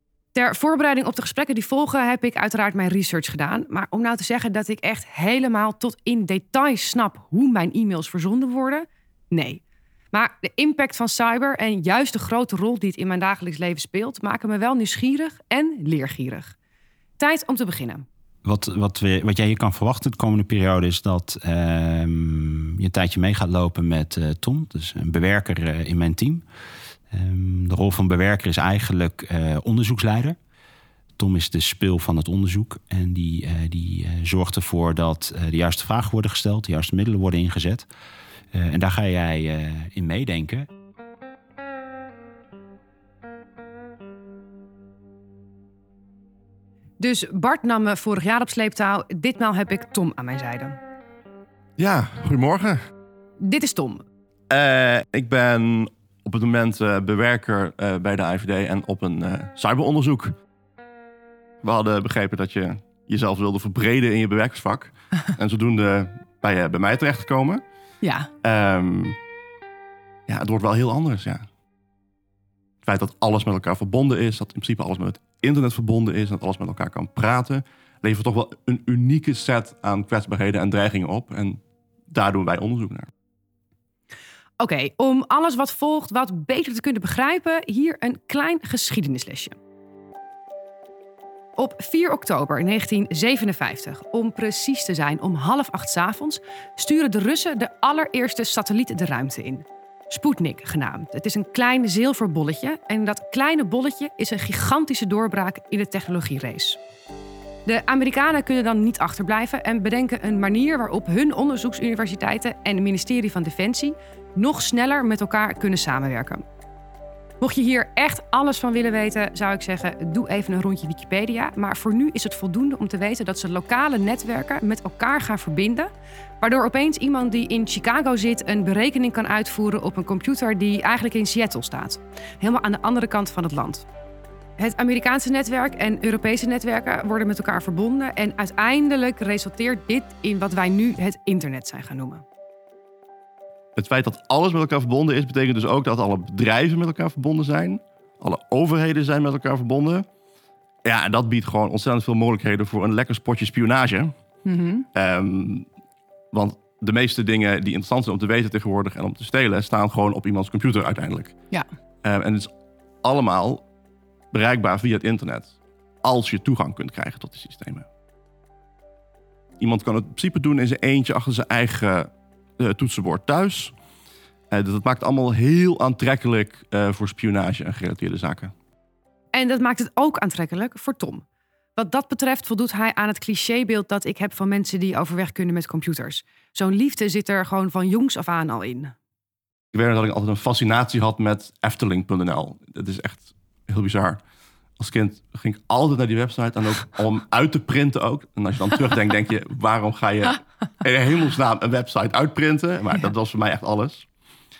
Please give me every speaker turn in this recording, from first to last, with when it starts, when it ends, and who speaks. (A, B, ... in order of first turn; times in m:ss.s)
0:00.3-0:09.6 A
0:10.1-0:16.5 A
0:17.2-0:18.0 A
0:18.4-0:26.4 B
0:27.1-0:30.4 B
0:31.2-0:37.9 B
0:38.5-0:40.7 B
0:47.0-0:50.8 A
0:51.8-0:52.8 C
0:53.4-0:54.0 A
0:54.5-1:00.4 C
1:01.6-1:07.6 C
1:08.0-1:08.3 A
1:08.4-1:09.2 C
1:10.3-1:11.5 C
1:12.8-1:23.1 C
1:24.6-1:29.6 A
1:31.6-1:46.8 A
1:47.6-1:56.4 A
1:57.4-2:13.8 A
2:14.6-2:22.2 A
2:23.8-2:30.1 C
2:30.8-2:34.1 C
2:34.4-2:34.9 A
2:34.9-2:35.7 C
2:36.3-2:41.3 C
2:42.0-2:42.5 C
2:43.0-2:43.6 C
2:44.3-2:47.9 C
2:49.6-2:53.7 C
2:54.5-2:58.5 C
2:59.3-3:01.2 A
3:01.8-3:08.9 A
3:09.7-3:14.2 C
3:14.8-3:24.1 C